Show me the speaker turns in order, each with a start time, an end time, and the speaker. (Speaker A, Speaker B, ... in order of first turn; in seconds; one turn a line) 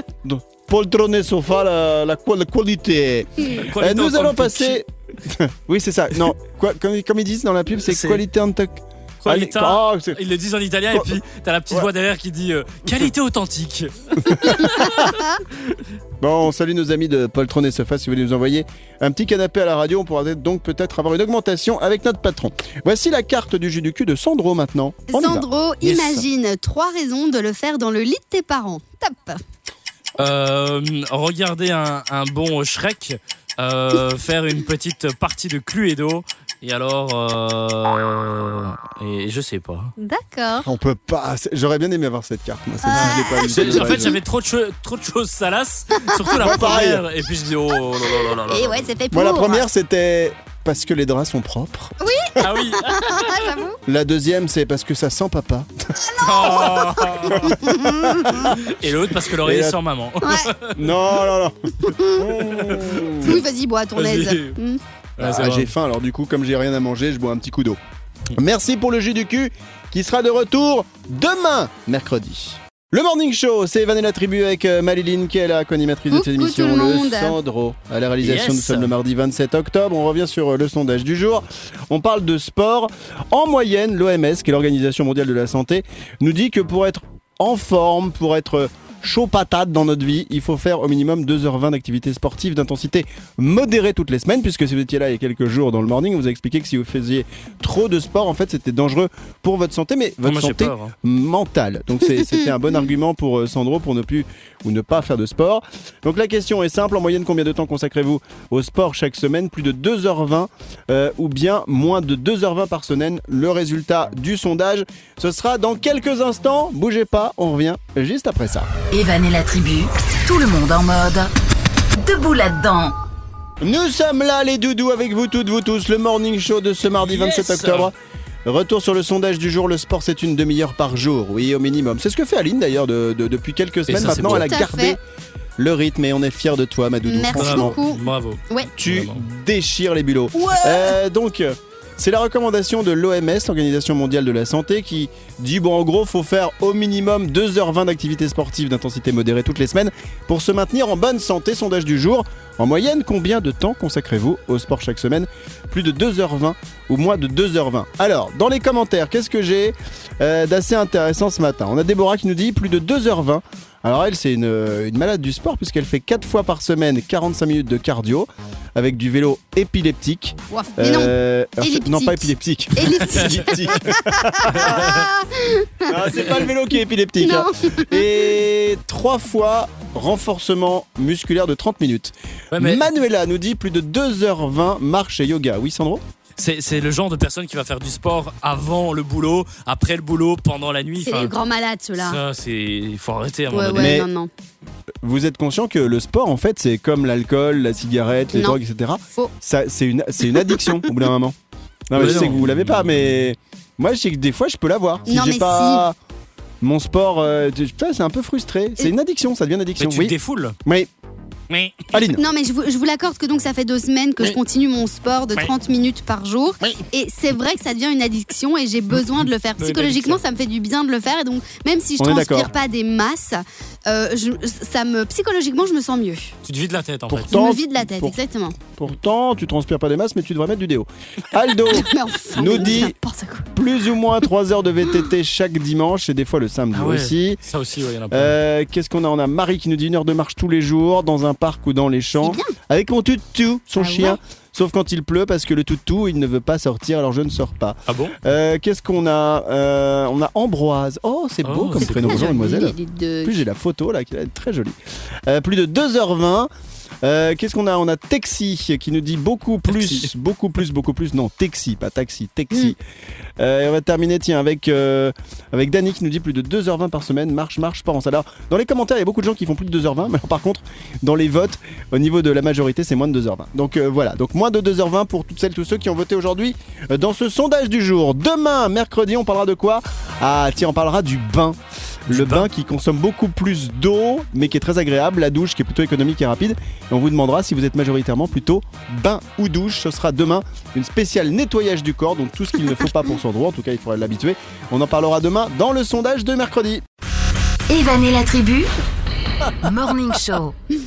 Speaker A: 0.2-10.2
Speaker B: 3.5-4.8
Speaker B: 7.9-8.2
Speaker B: 9.2-15.1
Speaker A: 14.3-14.9
Speaker C: 14.5-15.4
Speaker A: 16.2-26.3
Speaker C: 25.1-29.4
Speaker B: 30.2-39.9
Speaker C: 40.0-40.7
Speaker A: 40.6-44.1
Speaker C: 42.8-44.2
Speaker B: 42.9-48.9
Speaker C: 45.9-46.8
Speaker A: 46.4-47.0
Speaker C: 48.5-49.7
Speaker A: 49.1-52.0
Speaker C: 52.0-53.8
Speaker B: 52.4-53.4
Speaker A: 53.9-55.7
Speaker C: 56.1-58.6
Speaker B: 56.2-57.6
Speaker A: 57.3-58.6
Speaker B: 58.4-60.9
Speaker A: 59.3-59.8
Speaker C: 60.2-60.5
Speaker A: 60.7-63.4
Speaker C: 61.8-62.2
Speaker B: 62.4-63.4
Speaker C: 63.2-64.8
Speaker B: 64.0-64.6
Speaker B: 65.2-65.7
Speaker A: 65.2-67.8
Speaker A: 68.3-118.7
Speaker C: 76.1-77.4
Speaker B: 78.2-78.9
Speaker B: 100.2-100.9
Speaker D: 118.9-121.3
Speaker D: 122.0-123.0
Speaker A: 123.6-127.9
Speaker B: 127.0-127.9
Speaker A: 128.5-135.0
Speaker B: 133.9-134.5
Speaker C: 134.1-135.0
Speaker A: 135.6-137.8
Speaker C: 137.1-138.7
Speaker B: 137.4-139.2
Speaker A: 138.8-175.0
Speaker C: 140.3-141.0
Speaker C: 170.5-176.5
Speaker A: 175.9-186.0
Speaker C: 177.2-178.1
Speaker B: 182.5-182.9
Speaker B: 186.4-191.3
Speaker C: 191.0-192.2
Speaker B: 192.0-194.0
Speaker C: 193.5-194.3
Speaker A: 193.8-194.1
Speaker A: 195.0-201.4
Speaker C: 200.4-200.8
Speaker A: 201.9-206.0
Speaker B: 201.9-202.9
Speaker C: 205.1-205.8
Speaker A: 206.6-210.1
Speaker B: 209.8-210.6
Speaker A: 210.7-210.9
Speaker B: 211.5-211.9
Speaker A: 211.9-212.2
Speaker C: 212.1-226.3
Speaker B: 219.6-220.2
Speaker A: 222.0-222.5
Speaker B: 226.4-227.4
Speaker A: 227.1-233.0
Speaker C: 227.3-228.6
Speaker C: 231.7-233.5
Speaker A: 233.5-237.4
Speaker B: 236.7-238.3
Speaker A: 238.1-256.5
Speaker C: 242.2-242.6
Speaker C: 243.8-244.2
Speaker B: 247.9-248.2
Speaker B: 251.4-252.3
Speaker C: 251.8-253.4
Speaker A: 257.0-262.8
Speaker B: 259.7-260.1
Speaker A: 263.4-296.8
Speaker B: 282.1-282.5
Speaker D: 297.7-298.7
Speaker D: 299.4-300.6